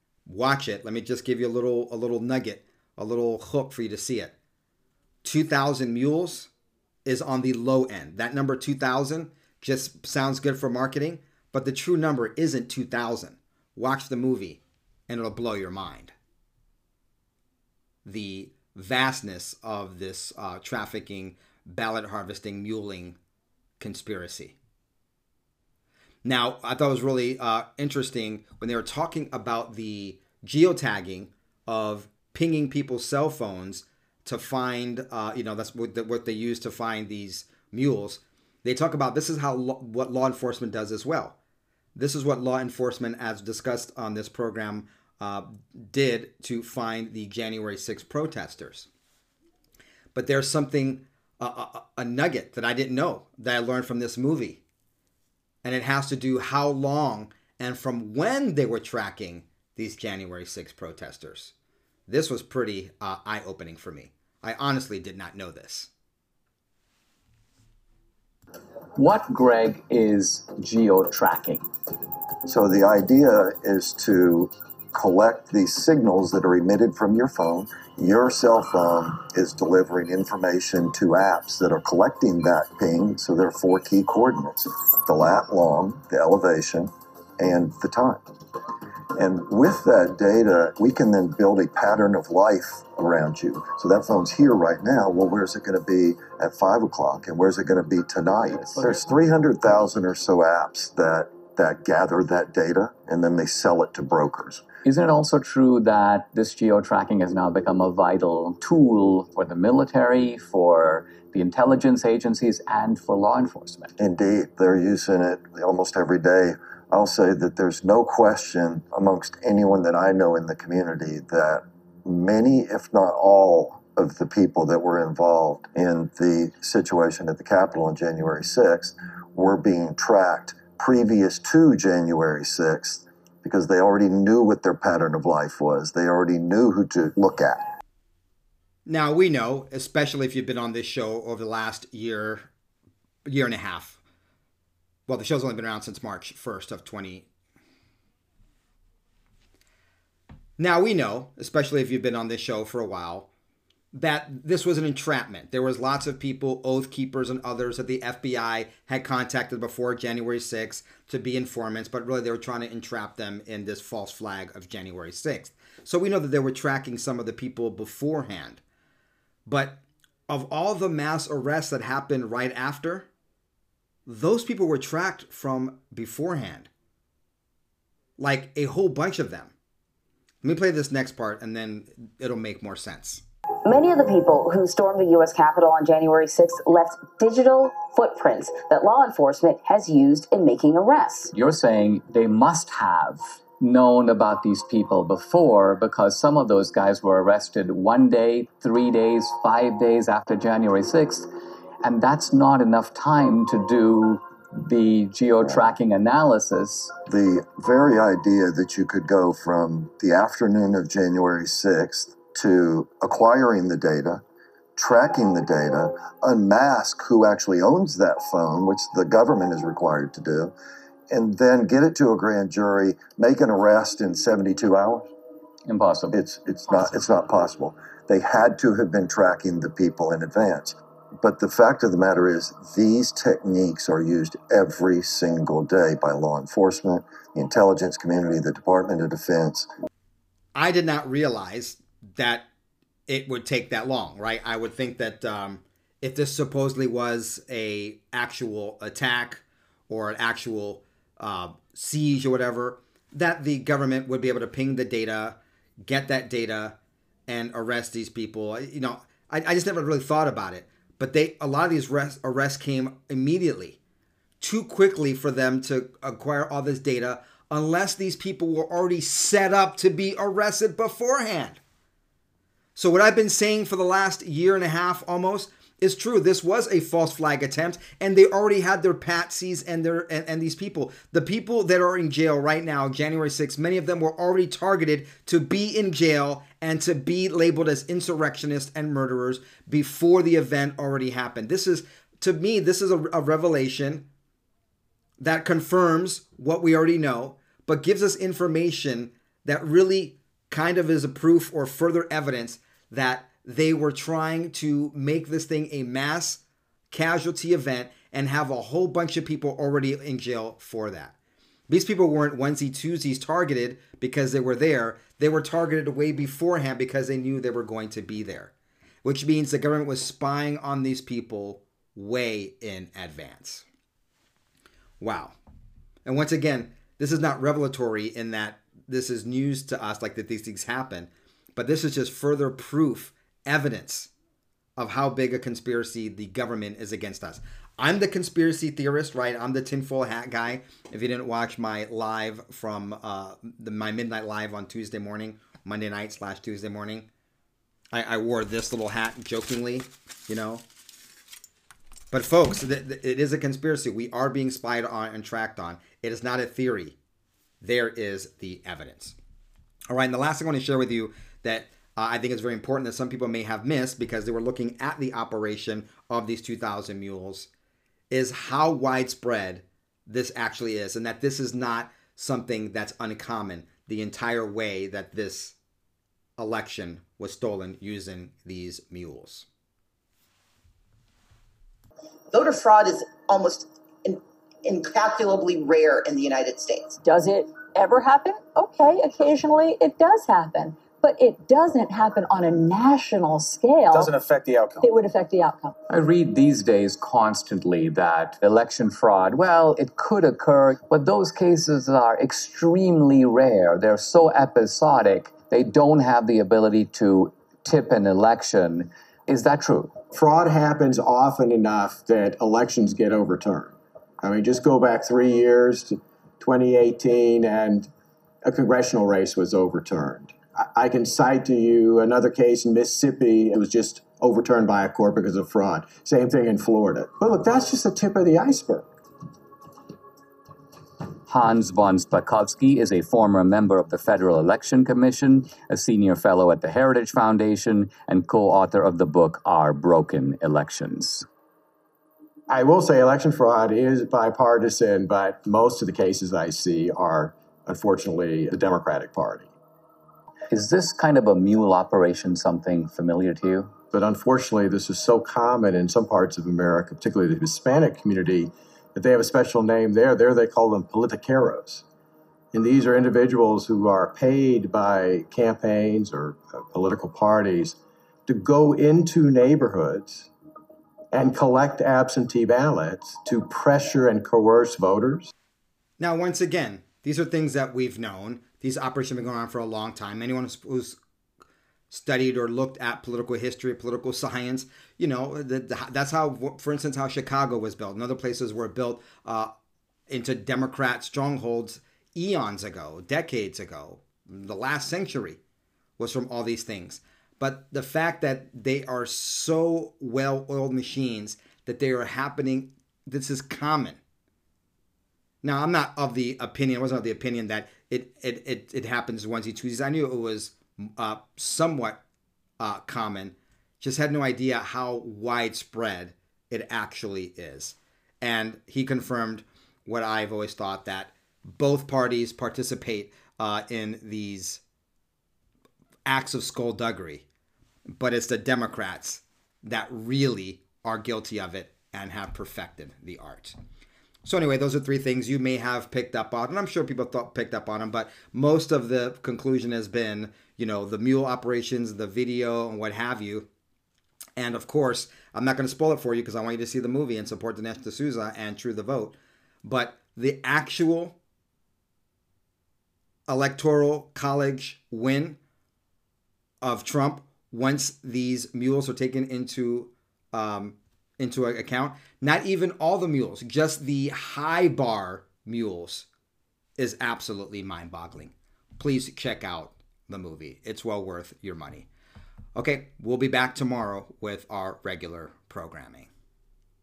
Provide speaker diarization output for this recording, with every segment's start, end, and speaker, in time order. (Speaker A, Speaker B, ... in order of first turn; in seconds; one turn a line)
Speaker A: 0.3-4.4
Speaker A: 5.2-6.5
Speaker A: 7.0-16.1
Speaker A: 18.1-23.2
Speaker A: 23.8-24.6
Speaker A: 26.2-41.4
Speaker A: 42.0-48.9
Speaker A: 50.1-54.6
Speaker A: 55.6-61.5
Speaker A: 62.1-65.9
Speaker B: 69.0-71.6
Speaker C: 72.5-88.2
Speaker C: 89.2-104.6
Speaker B: 98.5-99.1
Speaker B: 104.8-113.9
Speaker C: 114.0-137.6
Speaker A: 138.9-142.5
Speaker A: 143.3-144.0
Speaker A: 145.1-147.3
Speaker A: 150.6-153.3
Speaker A: 153.9-168.6
Speaker A: 169.5-173.1
Speaker A: 174.1-176.7
Speaker A: 178.2-179.6
Speaker A: 180.4-183.2
Speaker D: 183.7-191.3
Speaker B: 191.3-201.3
Speaker B: 201.8-206.9
Speaker C: 205.4-205.7
Speaker C: 207.1-214.2
Speaker C: 214.8-220.5
Speaker C: 221.1-225.1
Speaker B: 225.7-226.2
Speaker C: 226.1-239.7
Speaker A: 240.6-242.5
Speaker A: 243.1-256.8
Speaker A: 257.3-263.8
Speaker A: 264.4-271.6
Speaker A: 272.8-294.1
Speaker A: 295.2-311.2
Speaker A: 311.7-318.5
Speaker A: 319.0-323.6
Speaker A: 325.0-325.4
Speaker A: 326.1-334.1
Speaker A: 334.8-347.1
Speaker A: 347.9-350.6
Speaker A: 352.1-357.0
Speaker A: 357.6-359.2
Speaker A: 359.9-367.5
Speaker A: 368.1-375.6
Speaker A: 376.4-379.5
Speaker E: 382.3-387.0
Speaker F: 387.0-394.1
Speaker G: 393.9-394.9
Speaker F: 394.8-395.8
Speaker B: 395.9-409.9
Speaker G: 410.1-417.9
Speaker G: 418.4-428.9
Speaker B: 431.3-441.2
Speaker G: 442.5-449.5
Speaker B: 450.5-453.7
Speaker G: 453.9-461.8
Speaker G: 462.5-470.3
Speaker G: 471.1-475.3
Speaker A: 476.0-481.0
Speaker A: 481.9-489.5
Speaker A: 490.1-495.4
Speaker A: 496.0-504.0
Speaker A: 505.4-512.0
Speaker A: 512.6-524.6
Speaker A: 526.1-527.3
Speaker A: 527.9-533.6
Speaker A: 534.2-543.5
Speaker A: 544.4-551.2
Speaker A: 553.3-555.4
Speaker A: 556.6-566.1
Speaker A: 566.8-571.9
Speaker A: 572.5-576.1